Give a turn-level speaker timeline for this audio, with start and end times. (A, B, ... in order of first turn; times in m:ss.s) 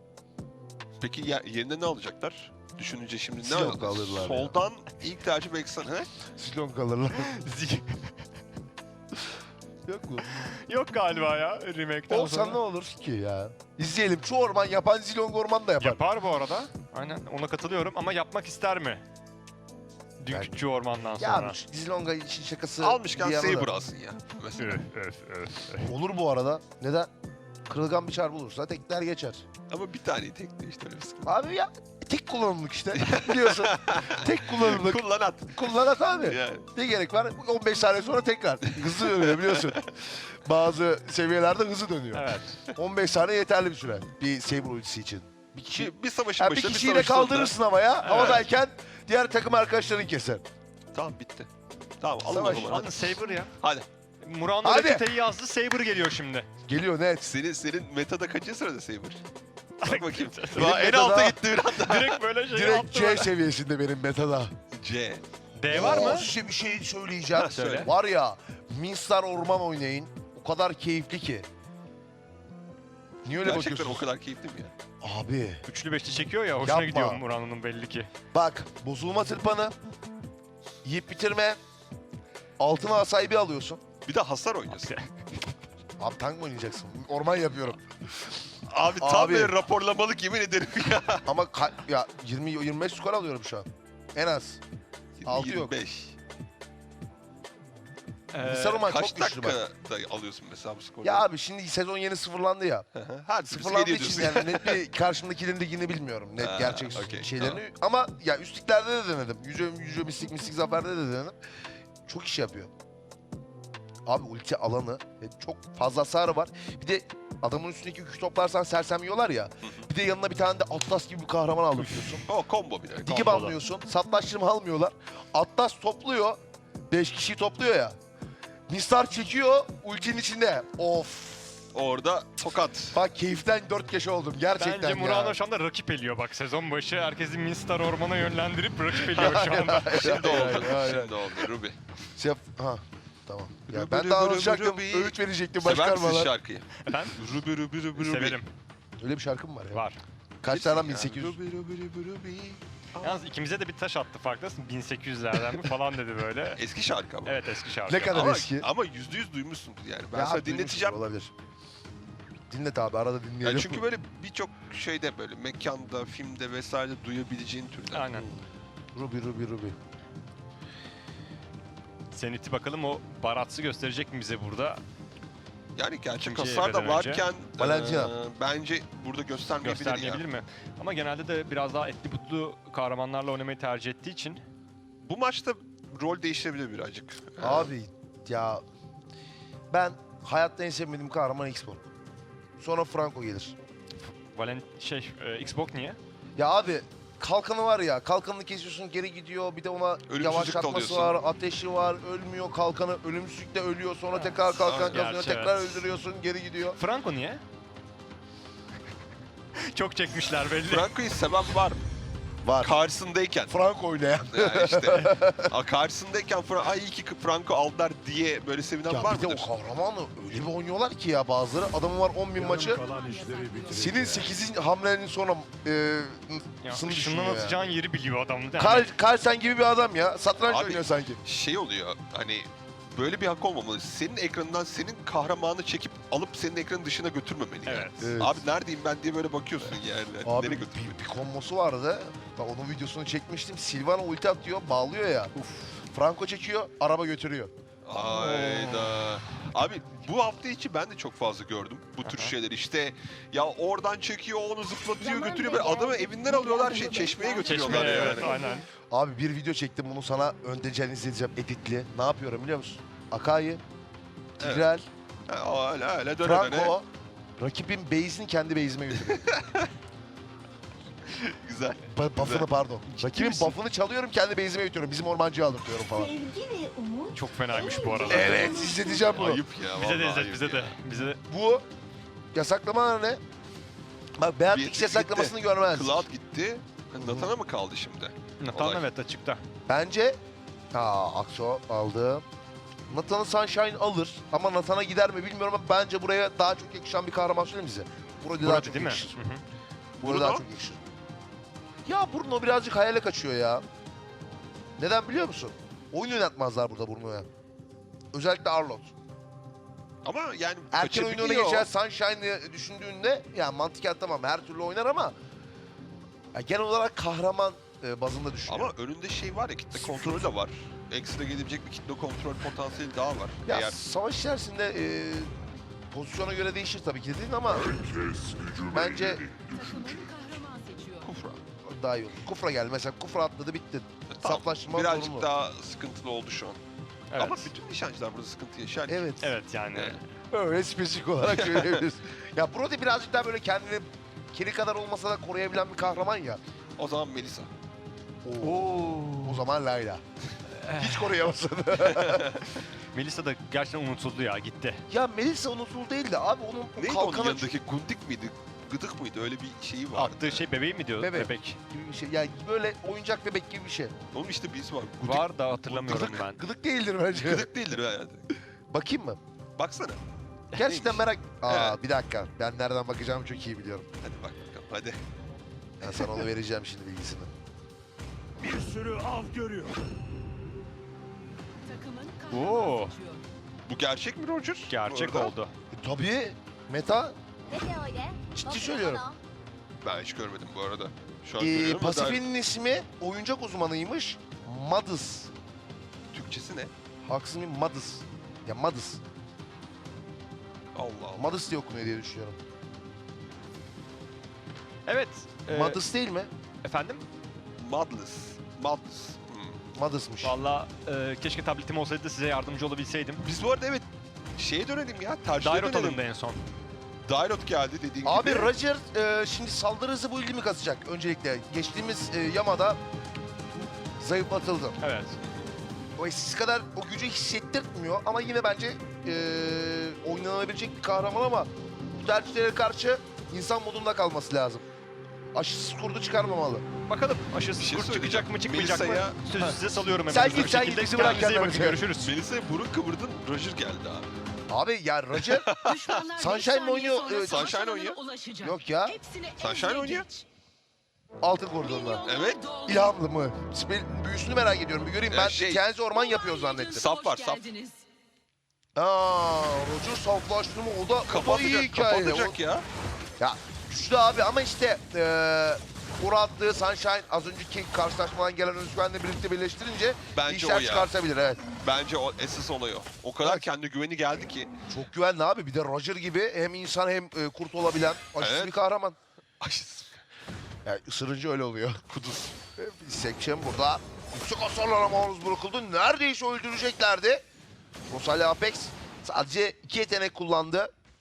0:01.0-0:06.1 A
0:03.4-0:04.6 B
0:06.4-0:07.4 B
0:07.2-0:08.2 C
0:09.9-0:10.5 B
0:10.4-0:12.6 C
0:12.1-0:16.0 B
0:15.8-0:19.0 C
0:20.2-0:21.6 C
0:20.3-0:20.6 B
0:21.2-0:23.7 B
0:22.8-0:24.8 A
0:24.6-0:25.9 C
0:25.8-0:27.1 B
0:27.7-0:29.4 B
0:29.7-0:31.3 A
0:31.2-0:50.4 B
0:33.0-0:36.7 A
0:38.6-0:39.9 A
0:42.1-0:42.6 C
0:45.7-0:48.4 A
0:48.0-0:48.4 C
0:50.9-0:51.5 A
0:52.0-0:52.9 A
0:52.2-0:52.8 B
0:52.4-0:53.5 C
0:53.6-0:53.9 A
0:54.2-0:56.5 C
0:54.6-0:55.0 B
0:56.6-0:57.3 B
0:57.3-0:59.2 A
0:59.8-1:00.7 C
0:59.8-1:02.2 A
1:00.5-1:01.4 B
1:01.6-1:03.3 C
1:02.5-1:04.6 B
1:04.7-1:05.2 A
1:05.6-1:06.3 C
1:05.7-1:11.5 B
1:07.3-1:07.9 A
1:07.5-1:07.9 C
1:13.2-1:14.0 B
1:13.4-1:14.7 A
1:15.0-1:15.6 B
1:15.7-1:18.1 C
1:16.6-1:17.2 B
1:18.3-1:19.8 B
1:20.8-1:21.6 B
1:22.6-1:23.8 B
1:24.1-1:24.9 A
1:24.7-1:25.1 C
1:26.0-1:28.3 B
1:28.7-1:31.3 A
1:29.0-1:29.6 B
1:31.3-1:34.6 B
1:35.2-1:36.2 A
1:35.2-1:35.8 B
1:38.3-1:38.9 C
1:38.4-1:39.6 B
1:38.8-1:41.3 A
1:41.0-1:42.9 B
1:42.9-1:44.8 A
1:43.5-1:51.4 B
1:46.4-1:47.6 A
1:52.1-1:52.7 B
1:54.0-2:02.2 B
2:02.3-2:03.3 A
2:03.0-2:06.4 B
2:03.1-2:03.6 C
2:06.9-2:08.0 B
2:08.7-2:11.6 B
2:11.7-2:13.0 A
2:12.9-2:15.4 B
2:14.6-2:20.8 C
2:19.1-2:21.4 B
2:19.2-2:21.8 A
2:22.2-2:26.3 B
2:23.7-2:28.4 A
2:26.8-2:27.2 C
2:27.9-2:28.5 C
2:29.0-2:29.9 B
2:29.7-2:30.0 C
2:30.4-2:31.4 B
2:30.5-2:33.2 A
2:33.0-2:36.6 C
2:36.6-2:37.4 A
2:37.2-2:38.3 C
2:37.9-2:38.7 B
2:38.1-2:41.0 A
2:40.1-2:41.3 B
2:42.5-2:43.9 B
2:43.4-2:48.3 A
2:47.9-2:48.3 C
2:49.0-2:49.8 B
2:52.1-2:54.8 C
2:55.8-3:00.2 A
2:56.2-2:57.2 C
2:57.6-2:58.1 B
2:59.6-3:04.4 C
3:05.0-3:07.7 A
3:07.4-3:08.6 B
3:09.7-3:11.9 B
3:12.6-3:13.6 B
3:14.3-3:16.0 C
3:16.4-3:26.8 B
3:20.1-3:21.2 A
3:24.1-3:25.8 C
3:24.6-3:25.0 A
3:26.7-3:27.4 C
3:29.6-3:30.9 C
3:30.7-3:31.8 A
3:32.4-3:32.8 B
3:32.6-3:33.5 A
3:33.5-3:35.5 B
3:34.3-3:39.5 A
3:38.9-3:42.8 B
3:42.6-3:44.4 D
3:43.7-3:47.6 B
3:46.6-3:48.9 C
3:48.6-3:51.2 B
3:50.5-4:01.0 A
3:57.7-3:58.1 C
3:58.0-3:58.4 B
4:00.2-4:07.5 B
4:05.4-4:05.7 C
4:07.8-4:18.3 A
4:07.9-4:09.0 C
4:12.0-4:12.3 C
4:15.0-4:18.7 D
4:15.4-4:15.8 E
4:16.4-4:17.4 E
4:17.4-4:18.6 C
4:18.9-4:23.6 B
4:24.4-4:24.7 A
4:24.4-4:24.9 B
4:25.3-4:26.8 A
4:26.2-4:26.9 B
4:27.4-4:29.3 B
4:29.0-4:29.7 A
4:31.1-4:32.5 A
4:31.9-4:36.1 B
4:33.1-4:33.5 A
4:35.9-4:39.2 E
4:37.1-4:38.8 C
4:38.1-4:39.4 B
4:38.9-4:40.8 A
4:39.7-4:41.2 C
4:41.3-4:41.6 B
4:42.3-4:43.2 B
4:44.2-4:46.1 B
4:44.5-4:48.8 A
4:48.4-4:49.4 C
4:49.7-4:50.2 B
4:50.7-4:52.2 B
4:52.9-4:59.2 B
4:58.4-4:59.4 C
5:00.0-5:00.8 B
5:00.0-5:00.4 A
5:01.9-5:03.6 B
5:04.8-5:07.3 B
5:08.1-5:08.9 B
5:10.0-5:11.7 A
5:10.7-5:15.2 B
5:16.3-5:18.7 B
5:18.5-5:23.8 A
5:19.8-5:20.3 B
5:23.5-5:25.3 B
5:25.9-5:29.3 B
5:29.3-5:31.1 D
5:31.0-5:31.4 A
5:31.6-5:35.3 B
5:34.1-5:36.6 A
5:37.1-5:37.5 C
5:37.2-5:39.2 A
5:38.9-5:39.3 B
5:39.2-5:40.0 C
5:40.3-5:46.4 B
5:41.3-5:41.9 A
5:46.8-5:47.5 A
5:48.2-5:50.0 B
5:48.4-5:49.4 C
5:50.6-5:51.2 C
5:50.8-5:52.3 B
5:51.8-5:52.5 A
5:52.9-5:54.9 C
5:54.9-5:57.6 B
5:56.8-6:00.5 A
5:59.9-6:01.6 C
6:01.0-6:04.0 B
6:04.1-6:06.3 A
6:05.0-6:06.4 C
6:05.9-6:07.5 B
6:07.1-6:08.3 A
6:08.7-6:09.2 B
6:09.6-6:10.0 A
6:10.6-6:13.9 B
6:10.6-6:11.8 A
6:14.0-6:15.0 A
6:15.8-6:17.3 B
6:15.9-6:16.1 A
6:18.4-6:19.7 A
6:21.6-6:23.3 D
6:22.3-6:22.9 C
6:23.7-6:25.3 A
6:24.7-6:25.5 C
6:25.8-6:27.2 B
6:27.5-6:29.2 E
6:28.4-6:29.0 B
6:29.8-6:32.2 A
6:31.4-6:35.3 B
6:36.1-6:36.7 A
6:37.0-6:39.0 B
6:40.8-6:41.4 A
6:41.2-6:42.4 B
6:44.9-6:45.8 C
6:45.5-6:46.3 B
6:46.6-6:47.0 C
6:47.6-6:49.6 A
6:49.8-6:50.4 B
6:50.2-6:53.3 C
6:53.2-6:53.9 A
6:54.4-6:56.0 A
6:55.4-6:56.5 C
6:57.0-6:58.5 A
6:58.0-7:02.8 B
7:03.5-7:04.8 B
7:04.8-7:05.2 C
7:06.0-7:14.7 B
7:15.3-7:16.6 B
7:16.9-7:22.1 C
7:17.6-7:19.2 A
7:20.1-7:21.8 B
7:22.0-7:24.1 A
7:24.5-7:25.5 B
7:25.1-7:26.1 A
7:25.5-7:30.2 D
7:26.2-7:27.5 B
7:27.2-7:28.0 A
7:28.4-7:29.0 B
7:29.4-7:30.1 A
7:31.2-7:32.0 B
7:31.6-7:33.0 D
7:32.1-7:32.4 A
7:32.7-7:36.8 B
7:35.1-7:35.6 A
7:35.9-7:37.9 D
7:36.8-7:37.4 A
7:38.8-7:42.4 B
7:41.1-7:42.7 A
7:43.2-7:51.4 B
7:50.1-7:50.9 A
7:51.6-7:54.5 A
7:53.2-7:53.5 B
7:54.7-7:59.0 B
7:58.2-7:58.6 A
7:59.4-8:00.0 A
8:00.6-8:01.8 B
8:01.9-8:02.3 A
8:02.6-8:07.2 B
8:07.9-8:10.7 B